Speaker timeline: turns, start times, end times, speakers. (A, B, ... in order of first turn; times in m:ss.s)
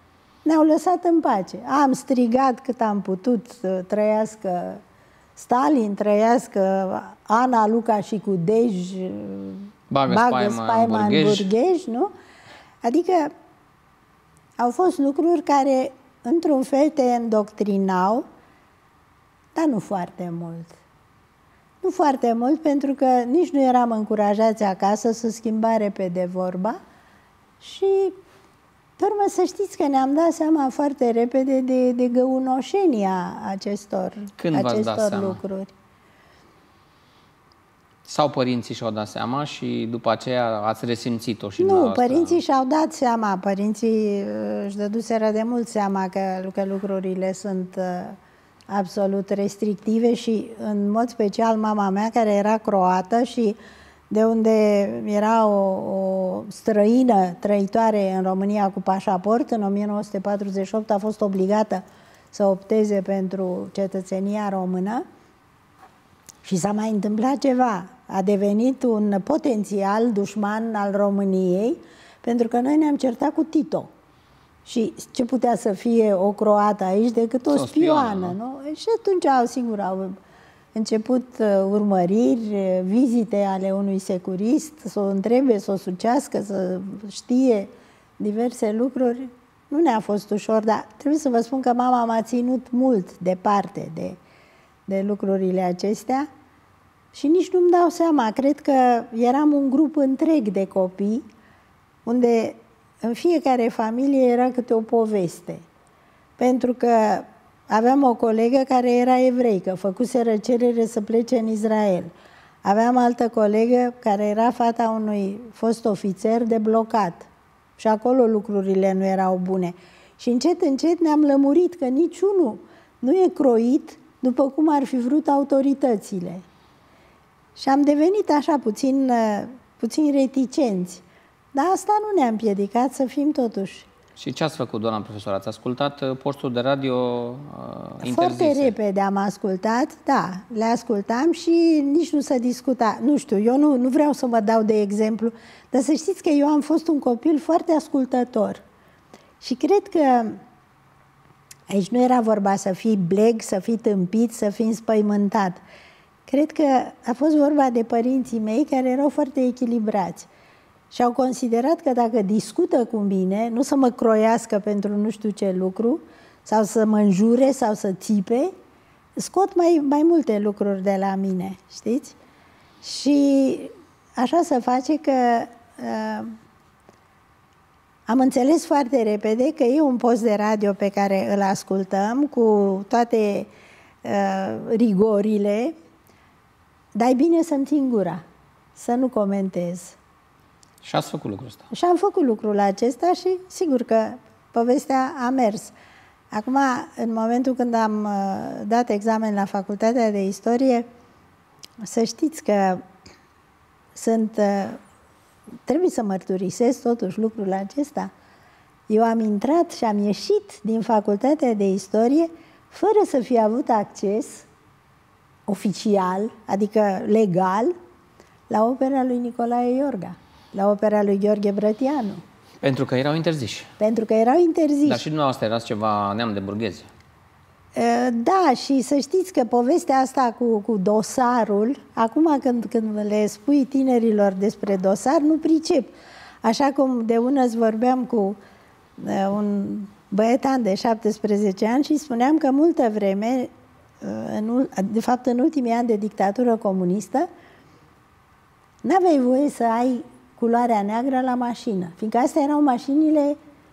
0:00.4-0:04.8 A
0:05.4-0:12.1 A
0:09.9-0:11.5 B
0:12.8-0:13.3 A
0:14.6-0:18.2 A
0:19.5-0:20.8 A
0:21.8-0:26.8 A
0:27.6-0:28.2 A
0:29.0-0:35.7 A
0:34.4-0:35.4 B
0:38.0-0:42.4 B
0:41.6-0:48.2 A
0:48.7-0:53.6 A
0:54.1-1:05.0 A
1:06.4-1:13.9 A
1:14.6-1:20.2 A
1:17.5-1:18.4 B
1:20.7-1:34.2 A
1:34.9-1:36.3 A
1:37.1-1:41.2 A
1:42.0-1:45.6 A
1:46.4-1:52.1 A
1:52.6-2:06.4 A
2:07.6-2:11.0 A
2:11.5-2:13.9 A
2:14.2-2:18.7 B
2:18.0-2:28.6 A
2:29.4-2:30.4 A
2:31.7-2:35.6 A
2:36.3-2:40.3 A
2:40.9-2:48.5 A
2:49.2-2:52.2 A
2:52.8-2:56.4 A
2:58.1-3:03.5 A
3:04.0-3:05.7 A
3:06.9-3:08.2 A
3:08.8-3:10.0 A
3:10.8-3:11.7 B
3:11.7-3:15.7 A
3:16.3-3:20.8 A
3:21.8-3:22.8 A
3:23.9-3:24.8 A
3:25.7-3:28.1 A
3:28.9-3:34.5 A
3:35.5-3:37.7 A
3:38.5-3:42.2 A
3:42.6-3:43.7 B
3:43.8-3:45.0 A
3:44.8-3:46.9 B
3:47.7-3:58.4 A
3:59.0-4:03.5 A
4:04.0-4:07.3 A
4:08.8-4:13.4 A